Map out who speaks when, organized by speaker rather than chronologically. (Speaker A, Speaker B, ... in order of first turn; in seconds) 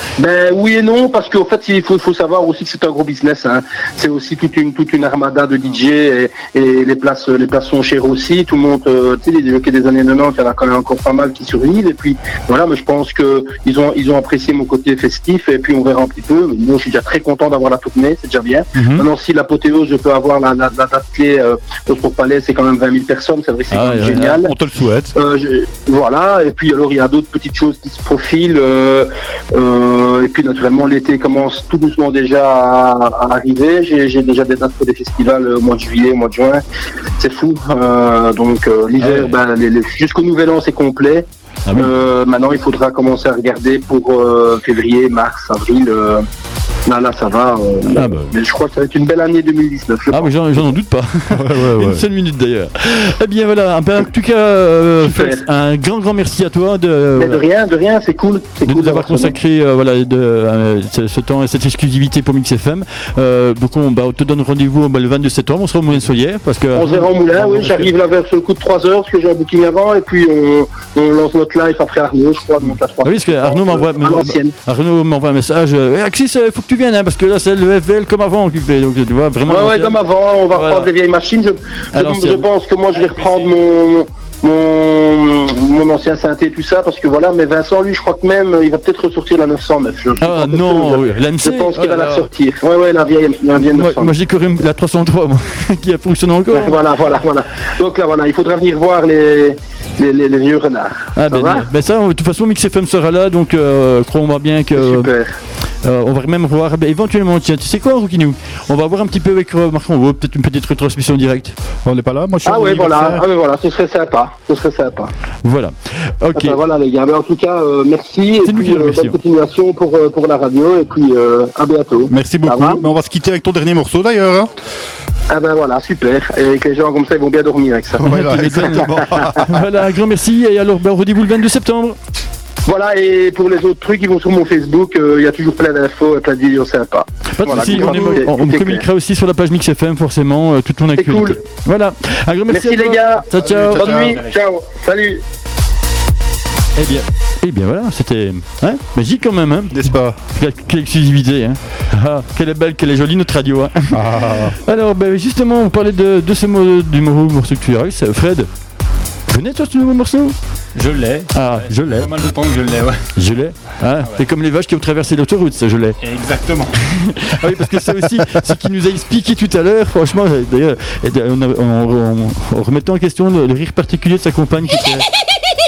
Speaker A: 0.2-24.5, 25.2-36.6, 37.2-46.2, 46.9-50.3, 55.0-55.4, 57.2-59.4, 66.7-74.5, 79.5-94.2, 96.5-101.7, 104.8-105.3, 112.5-115.1, 116.3-122.8, 125.3-129.3, 132.7-138.8, 141.0-141.4, 142.5-145.2
Speaker B: 18.8-19.1, 24.0-25.1, 51.3-52.0, 111.8-113.2, 122.1-124.5, 128.0-129.6, 137.5-138.2, 143.4-144.2, 149.7-150.2, 153.9-154.6
Speaker C: 23.7-24.4, 39.0-39.3, 41.7-41.9, 47.9-48.3, 50.1-57.4, 58.6-67.9, 73.0-80.9, 81.9-82.5, 90.2-92.3, 93.6-96.8, 101.2-105.1, 105.8-111.6, 115.4-116.6, 118.4-119.2, 128.1-132.0, 137.3-144.1, 146.8-158.5, 159.3-160.3, 161.3-162.1, 163.2-166.0, 166.8-175.1
Speaker D: 160.8-161.3, 161.9-163.1, 166.0-166.8